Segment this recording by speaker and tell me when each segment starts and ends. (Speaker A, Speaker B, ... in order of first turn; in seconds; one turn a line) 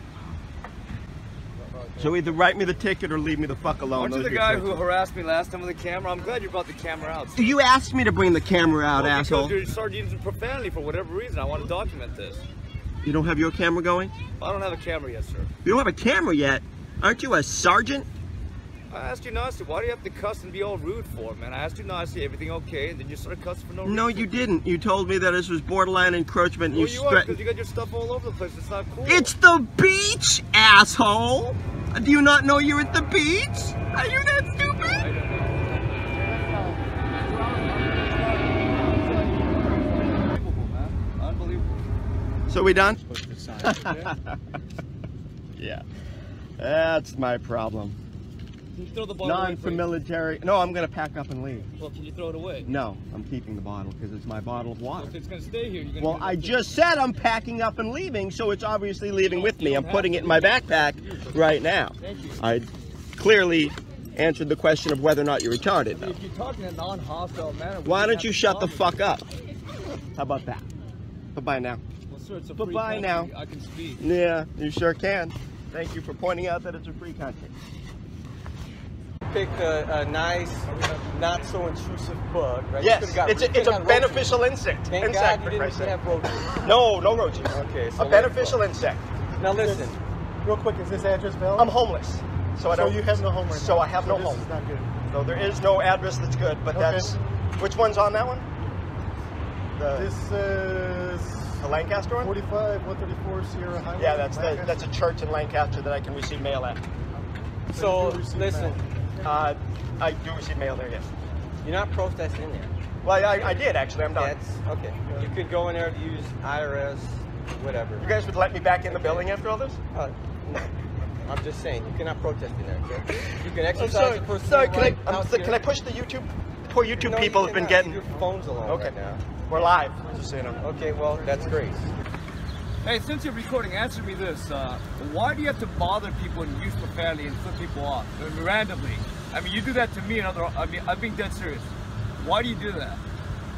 Speaker A: 1.7-2.2
Speaker B: 2.0-4.8
Speaker A: 3.9-7.5
Speaker B: 7.3-9.6
Speaker A: 8.9-12.4
Speaker B: 13.0-14.2
Speaker A: 14.4-15.5
Speaker B: 15.6-18.1
Speaker A: 18.9-24.4
Speaker B: 23.8-27.4
Speaker A: 26.7-29.3
Speaker B: 29.0-35.0
Speaker A: 34.8-41.8
Speaker B: 42.5-43.0
Speaker C: 43.0-43.9
Speaker B: 43.6-44.1
Speaker B: 45.5-45.8
Speaker B: 46.6-48.0
Speaker A: 48.7-49.9
Speaker B: 49.2-51.7
Speaker A: 51.8-52.7
Speaker B: 52.6-55.1
Speaker A: 55.0-56.7
Speaker B: 56.0-62.7
Speaker A: 59.2-60.6
Speaker A: 62.0-62.4
Speaker B: 63.2-66.2
Speaker A: 65.9-69.0
Speaker B: 67.8-69.2
Speaker B: 70.2-70.6
Speaker B: 71.3-71.8
Speaker A: 72.1-74.0
Speaker B: 72.5-73.3
Speaker B: 74.0-77.5
Speaker D: 79.3-86.7
Speaker A: 80.7-81.5
Speaker B: 82.8-85.9
Speaker B: 86.6-89.0
Speaker D: 87.5-88.6
Speaker D: 89.4-90.0
Speaker C: 90.4-91.7
Speaker B: 91.5-94.5
Speaker C: 92.7-94.9
Speaker B: 95.1-98.5
Speaker C: 96.7-97.1
Speaker B: 99.8-100.1
Speaker C: 100.0-101.5
Speaker B: 101.6-102.3
Speaker C: 102.2-104.7
Speaker B: 104.0-106.8
Speaker C: 107.7-108.8
Speaker D: 107.7-108.8
Speaker B: 109.2-111.1
Speaker D: 111.6-112.7
Speaker B: 113.0-114.3
Speaker D: 114.2-118.1
Speaker B: 118.0-119.8
Speaker D: 118.9-119.2
Speaker D: 119.9-120.7
Speaker D: 121.2-125.6
Speaker B: 123.7-128.0
Speaker D: 126.9-129.2
Speaker B: 128.7-128.9
Speaker B: 129.5-130.6
Speaker D: 130.6-131.9
Speaker A: 132.8-143.0